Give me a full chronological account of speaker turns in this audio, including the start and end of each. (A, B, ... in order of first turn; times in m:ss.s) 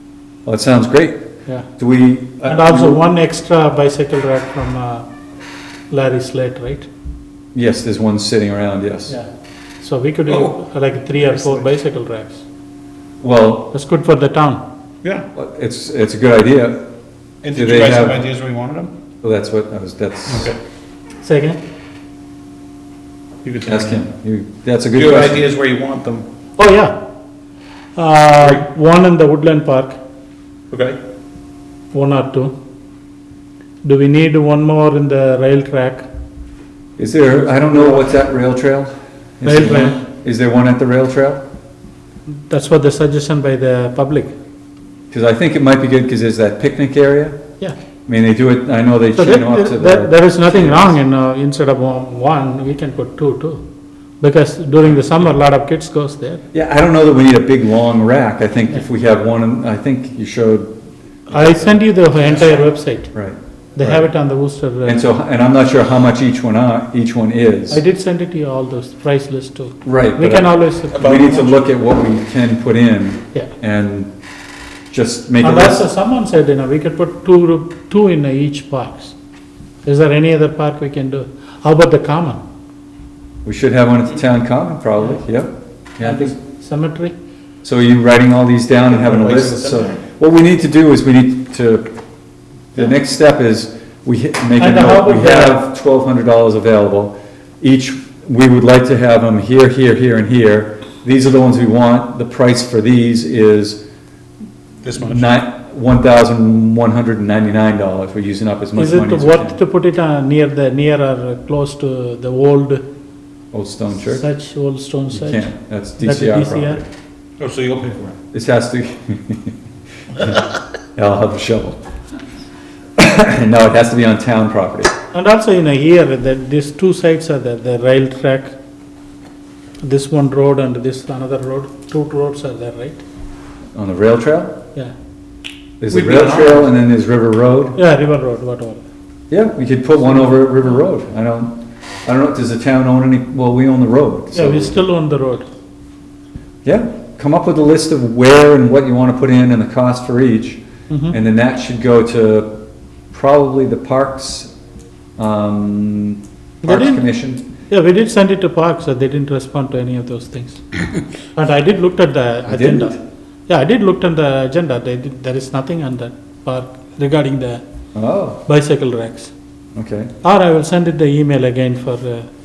0:00.5-0:01.3 A
0:01.8-0:03.0 A
0:02.4-0:05.1 B
0:05.9-0:06.9 B
0:07.6-0:09.2 A
0:09.8-0:12.4 B
0:13.2-0:13.7 A
0:13.7-0:14.6 B
0:15.3-0:16.8 A
0:17.4-0:18.9 C
0:17.5-0:18.2 A
0:19.2-0:20.5 A
0:20.3-0:20.6 C
0:21.2-0:21.6 B
0:23.4-0:24.0 C
0:23.6-0:25.4 A
0:24.9-0:26.3 C
0:26.6-0:27.0 B
0:28.0-0:30.0 B
0:30.7-0:31.0 C
0:31.9-0:32.5 B
0:33.8-0:36.1 B
0:37.0-0:41.4 A
0:39.4-0:40.0 B
0:42.3-0:44.3 B
0:45.1-0:47.4 A
0:48.1-0:51.0 A
0:49.2-0:53.6 B
0:54.2-0:56.4 B
0:56.5-1:00.7 A
1:01.3-1:01.8 A
1:01.3-1:03.1 B
1:03.1-1:04.1 A
1:03.8-1:05.1 B
1:04.8-1:07.8 A
1:07.7-1:11.2 B
1:09.8-1:14.1 A
1:10.9-1:11.7 C
1:14.9-1:15.9 A
1:15.4-1:19.1 B
1:19.8-1:22.4 B
1:23.4-1:26.3 A
1:26.0-1:27.2 B
1:27.6-1:31.9 A
1:29.0-1:30.0 C
1:32.7-1:43.8 A
1:34.6-1:35.6 B
1:44.8-1:45.3 C
1:45.0-1:49.6 A
1:48.8-1:52.8 B
1:53.5-1:54.2 A
1:54.0-1:56.8 B
1:55.1-1:56.9 A
1:57.4-1:58.2 C
1:58.3-1:59.6 A
2:00.1-2:01.8 A
2:03.0-2:04.9 A
2:05.1-2:08.5 B
2:09.8-2:13.0 B
2:13.8-2:14.6 A
2:15.8-2:17.8 A
2:15.9-2:16.7 C
2:17.8-2:18.8 B
2:19.3-2:24.8 A
2:24.3-2:25.5 B
2:26.6-2:34.5 A
2:30.9-2:31.2 B
2:35.2-2:37.4 A
2:36.6-2:37.1 B
2:37.7-2:40.8 B
2:41.4-2:47.6 B
2:42.5-2:43.0 A
2:47.9-2:48.4 A
2:48.5-2:49.3 B
2:49.8-2:50.1 A
2:50.2-2:52.3 B